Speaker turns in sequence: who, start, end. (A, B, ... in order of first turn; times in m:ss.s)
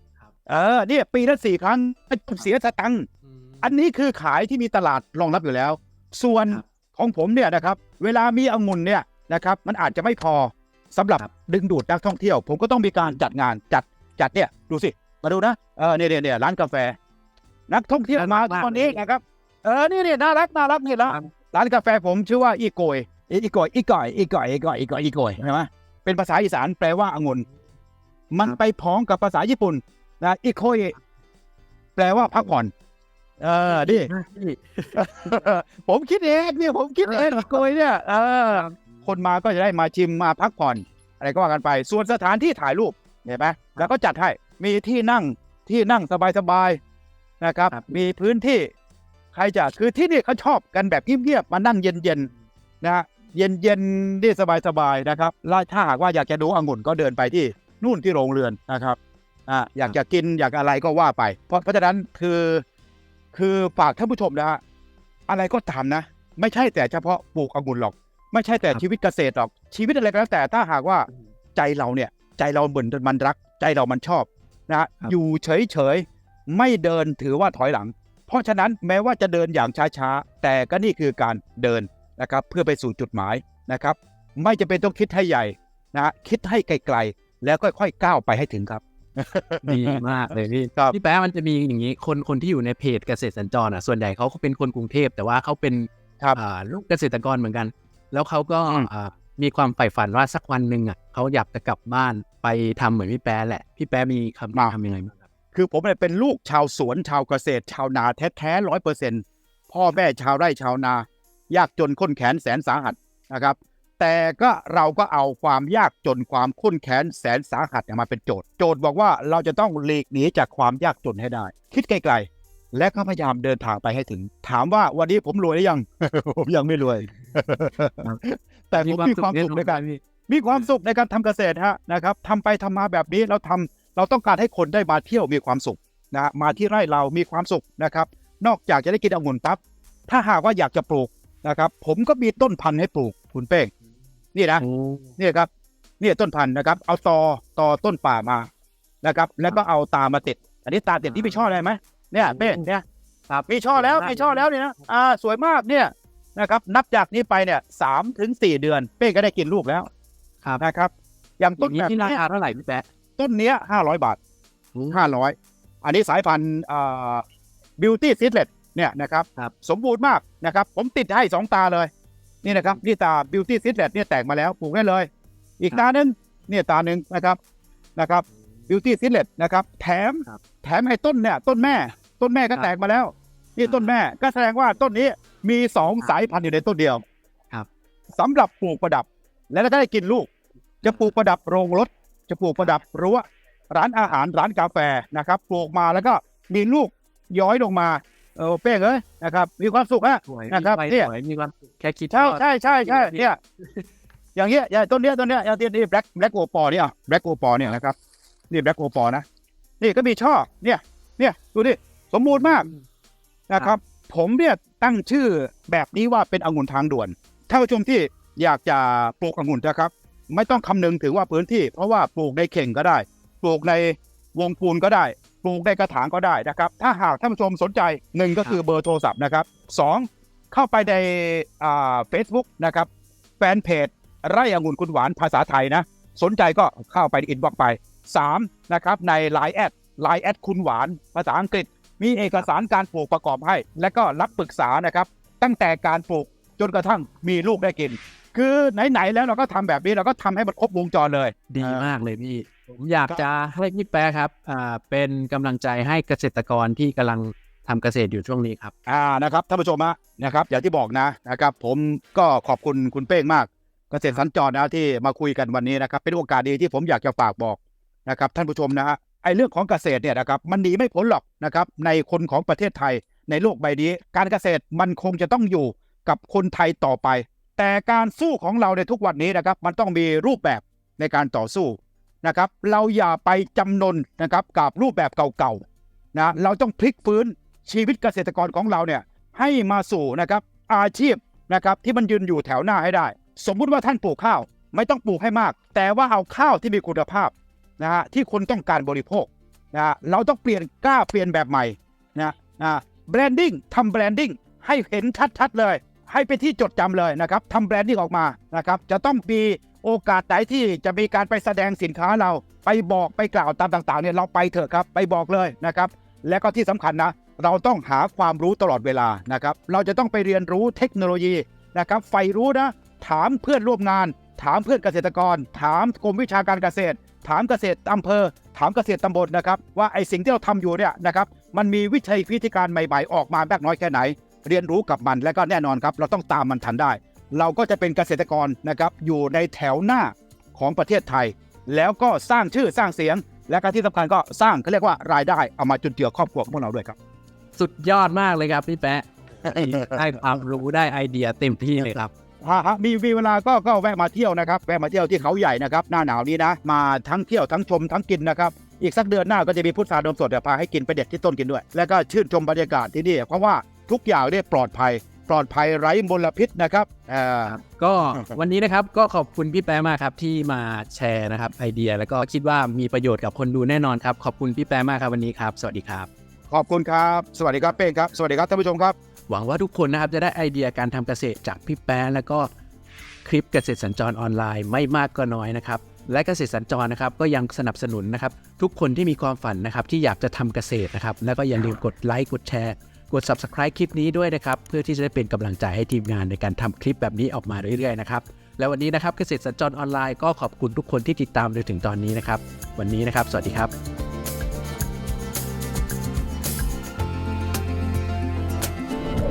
0:00.5-0:03.1 A
0:03.3-0:03.6 B
0:03.6-0:17.0 A
0:17.7-0:27.4 A
0:18.1-0:19.0 B
0:28.3-0:31.0 A
0:32.0-0:32.7 A
0:33.4-0:34.1 A
0:33.7-0:35.4 B
0:35.0-0:46.8 A
0:37.0-0:37.6 B
0:38.5-0:38.9 B
0:47.4-0:48.7 A
0:47.7-0:48.0 B
0:49.3-0:52.3 A
0:52.8-0:59.0 A
0:59.5-1:02.6 A
1:03.3-1:04.6 A
1:05.3-1:30.0 A
1:29.6-1:45.2 B
1:45.5-2:23.7 A
2:08.7-2:10.0 B
2:24.3-2:24.6 A
2:24.6-2:25.1 B
2:25.2-2:25.5 A
2:26.0-2:28.5 A
2:29.0-2:32.8 A
2:31.1-2:31.3 B
2:32.2-2:32.7 B
2:33.3-2:34.5 B
2:33.5-2:39.9 A
2:40.6-2:42.2 A
2:41.6-2:42.9 B
2:43.2-2:44.2 A
2:44.8-2:45.1 B
2:44.9-2:47.2 A
2:47.8-2:51.9 A
2:52.4-2:55.1 A
2:52.5-2:52.8 B
2:55.6-2:57.4 A
2:58.0-3:07.0 A
3:08.2-3:10.3 A
3:10.8-3:21.1 A
3:20.2-3:23.8 B
3:22.1-3:23.4 A
3:24.4-3:28.0 A
3:28.5-3:29.2 A
3:29.8-3:32.7 A
3:32.3-3:32.8 B
3:33.5-3:52.9 A
3:53.4-4:11.8 A
4:11.5-4:18.7 B
4:18.9-4:45.6 A
4:46.1-5:47.0 A
5:47.6-5:52.1 B
5:49.4-5:50.0 A
5:52.4-6:07.6 A
6:07.5-6:16.1 B
6:16.5-6:19.0 A
6:19.3-6:22.5 B
6:23.2-6:43.7 B